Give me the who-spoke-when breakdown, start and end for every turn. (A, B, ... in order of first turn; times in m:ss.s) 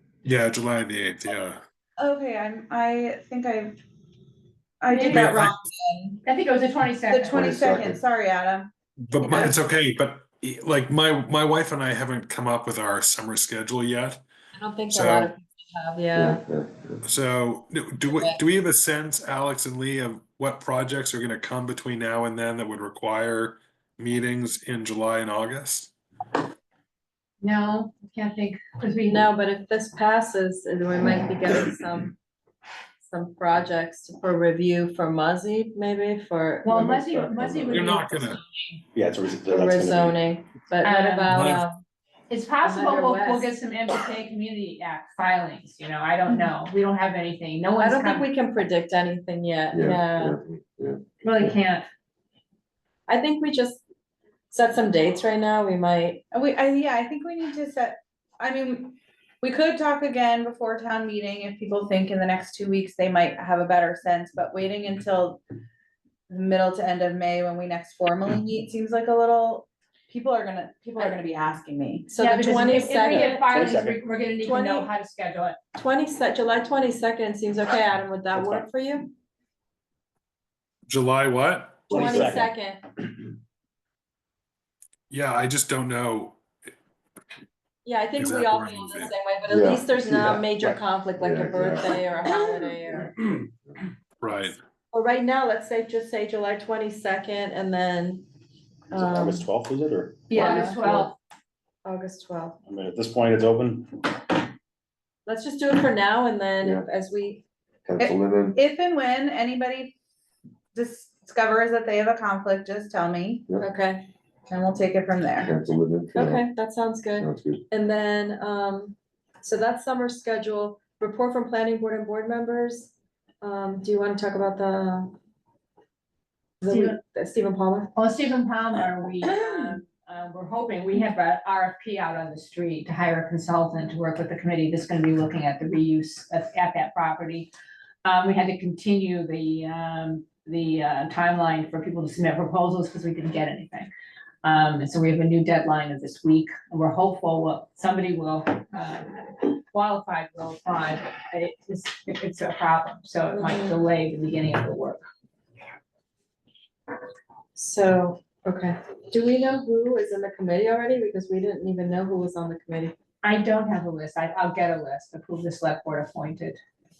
0:00.2-0:01.6 A
0:02.0-0:03.8 B
0:04.8-0:06.2 B
0:04.9-0:05.3 C
0:05.1-0:05.6 A
0:06.2-0:07.4 C
0:07.1-0:08.7 B
0:07.3-0:08.0 D
0:09.1-0:14.2 A
0:09.2-0:09.6 B
0:14.6-0:16.4 E
0:14.9-0:15.3 A
0:16.1-0:17.0 D
0:17.0-0:25.9 A
0:18.1-0:18.4 E
0:27.4-0:29.3 C
0:29.1-0:32.2 E
0:33.0-0:36.7 E
0:36.6-0:38.8 C
0:36.7-0:37.8 D
0:37.7-0:38.4 A
0:38.9-0:40.3 F
0:39.5-0:41.8 E
0:40.8-0:41.4 C
0:41.3-0:41.7 A
0:42.3-0:48.3 C
0:42.6-0:43.5 E
0:46.3-0:46.5 E
0:47.8-0:50.4 E
0:49.7-0:51.5 D
0:51.2-0:51.9 C
0:53.1-0:53.8 E
0:54.5-0:56.2 E
0:56.3-1:05.4 B
1:06.3-1:12.1 B
1:12.1-1:13.8 E
1:12.2-1:15.6 C
1:13.0-1:14.1 F
1:14.4-1:14.9 E
1:15.8-1:19.1 E
1:18.3-1:18.7 F
1:20.9-1:22.0 A
1:21.9-1:22.5 F
1:21.9-1:22.8 E
1:25.1-1:26.4 A
1:27.8-1:33.1 E
1:28.2-1:29.1 A
1:29.5-1:32.0 D
1:34.2-1:34.6 A
1:34.9-1:38.2 E
1:38.9-1:39.5 E
1:39.0-1:40.5 F
1:40.3-1:41.2 C
1:40.3-1:41.1 E
1:41.8-1:42.6 E
1:42.6-1:44.2 F
1:45.2-1:47.4 E
1:46.6-1:46.9 D
1:47.9-1:48.6 D
1:48.0-1:49.9 B
1:50.7-1:53.4 B
1:53.6-1:54.1 E
1:54.5-1:55.5 B
1:55.4-1:56.5 D
1:56.2-2:05.1 E
1:57.2-1:57.6 D
2:06.6-2:07.9 E
2:06.7-2:07.0 C
2:07.9-2:17.5 C
2:09.2-2:09.8 E
2:18.0-2:23.9 C
2:24.4-2:35.1 C
2:33.3-2:33.9 E
2:37.6-2:42.9 E
2:43.2-2:46.6 C